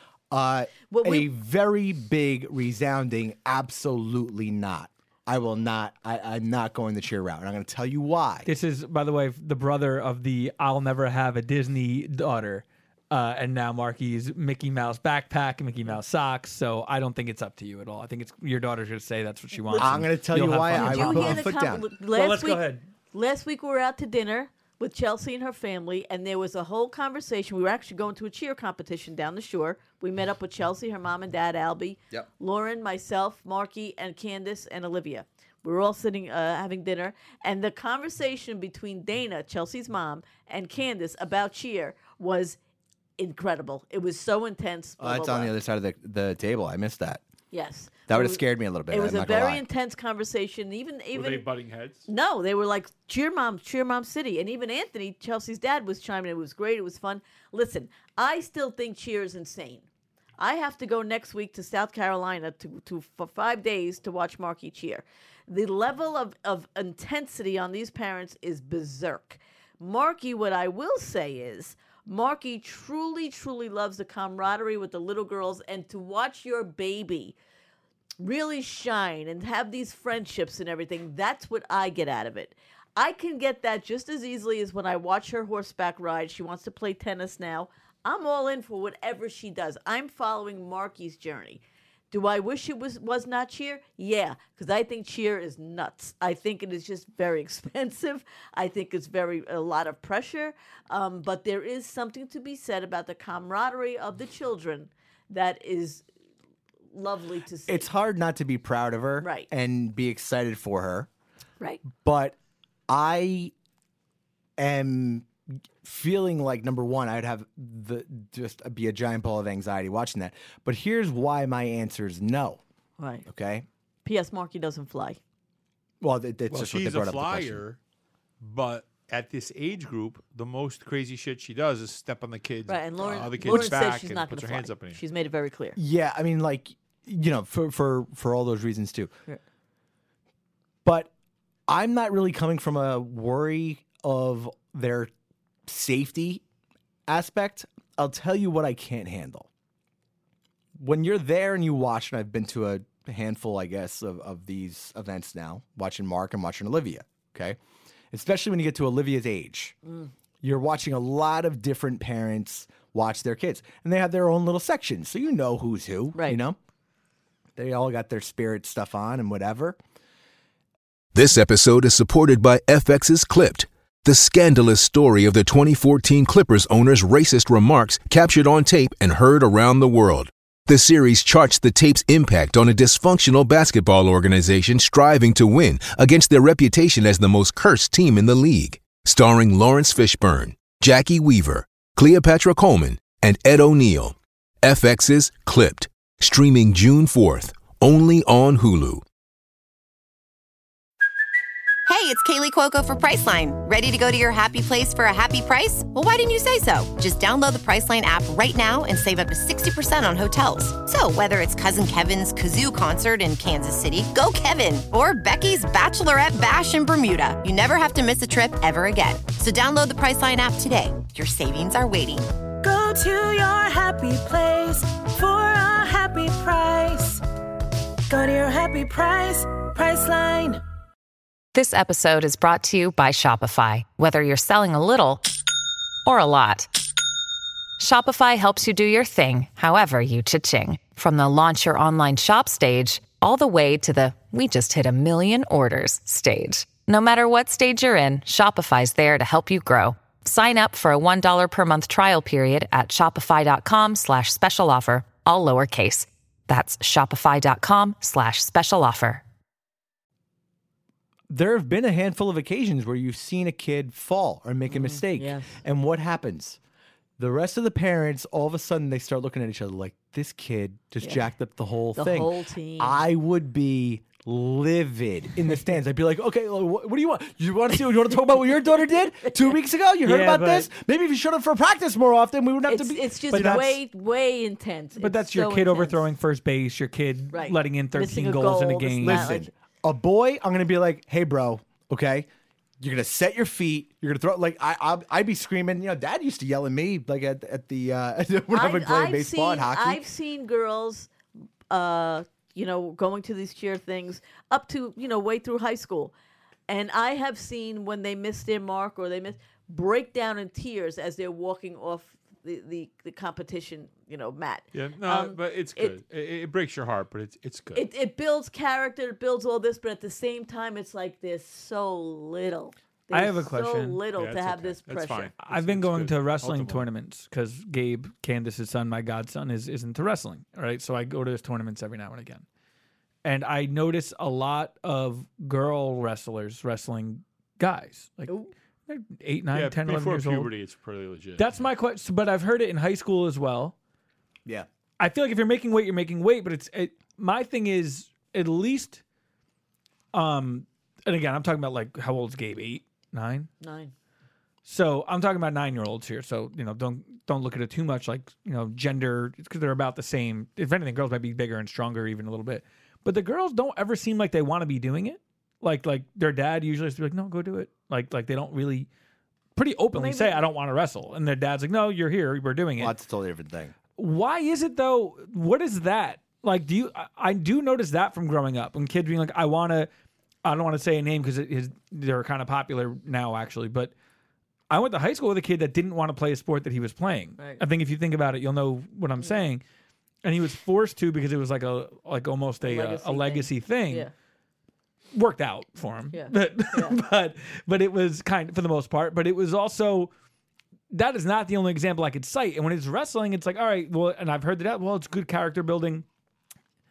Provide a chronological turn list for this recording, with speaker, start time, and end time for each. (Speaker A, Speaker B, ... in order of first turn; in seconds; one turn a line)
Speaker A: 0.3-8.5
Speaker B: 0.9-1.3
Speaker C: 8.4-21.5
Speaker B: 19.7-19.9
Speaker A: 19.8-21.9
Speaker B: 20.7-42.6
Speaker C: 22.1-22.8
Speaker B: 43.2-45.5
Speaker A: 45.0-47.2
Speaker B: 47.5-51.5
Speaker A: 48.1-49.6
Speaker D: 51.1-52.1
Speaker B: 52.1-59.9
Speaker B: 60.4-77.4
Speaker B: 78.2-106.0
Speaker B: 106.9-107.9
Speaker A: 107.7-111.1
Speaker B: 109.2-109.5
Speaker A: 111.9-112.4
Speaker A: 112.9-113.5
Speaker A: 114.6-115.3
Speaker A: 115.8-122.6
Speaker B: 123.0-123.2
Speaker A: 123.2-123.7
Speaker B: 124.0-125.2
Speaker A: 126.0-127.6
Speaker D: 126.5-127.8
Speaker D: 128.4-135.0
Speaker B: 132.7-135.8
Speaker A: 133.4-133.7
Speaker A: 135.8-139.1
Speaker A: 140.8-141.1
Speaker A: 141.7-145.1
Speaker A: 145.7-146.4
Speaker A: 147.1-149.5
Speaker A: 150.8-157.6
Speaker A: 158.1-159.8
Speaker B: 159.9-160.1
Speaker A: 160.4-166.6
Speaker B: 166.1-166.4
Speaker A: 167.6-169.8
Speaker E: 171.1-199.0
Speaker F: 201.9-222.3
Speaker G: 222.6-227.2
Speaker G: 228.1-230.6
Speaker H: 231.5-235.2
Speaker H: 236.0-236.7
Speaker H: 237.8-259.2
Speaker A: 261.3-266.6
Speaker B: 264.7-265.6
Speaker A: 267.2-283.6
Speaker B: 271.9-273.0
Speaker B: 279.2-279.6
Speaker C: 280.1-280.7
Speaker B: 282.7-286.0
Speaker C: 283.3-283.8
Speaker C: 285.0-289.3
Speaker B: 287.3-289.5
Speaker A: 289.0-292.3
Speaker A: 292.8-300.0
Speaker B: 298.5-301.1
Speaker B: 301.7-306.1
Speaker B: 306.7-316.0
Speaker D: 314.7-317.9
Speaker B: 317.7-325.3
Speaker C: 323.1-324.0
Speaker D: 324.1-326.9
Speaker C: 325.4-332.4
Speaker C: 333.2-338.4
Speaker C: 338.9-340.5
Speaker D: 339.5-341.6
Speaker C: 341.4-343.7
Speaker C: 345.0-349.0
Speaker C: 350.1-353.5
Speaker B: 353.6-353.9
Speaker C: 354.6-368.9
Speaker C: 369.6-372.9
Speaker B: 369.9-370.4
Speaker A: 372.8-373.7
Speaker C: 373.9-379.9
Speaker C: 380.4-383.9
Speaker C: 384.7-389.6
Speaker B: 387.4-387.6
Speaker C: 390.2-394.1
Speaker B: 392.6-394.1
Speaker C: 395.1-400.1
Speaker B: 396.1-397.0
Speaker C: 400.9-406.1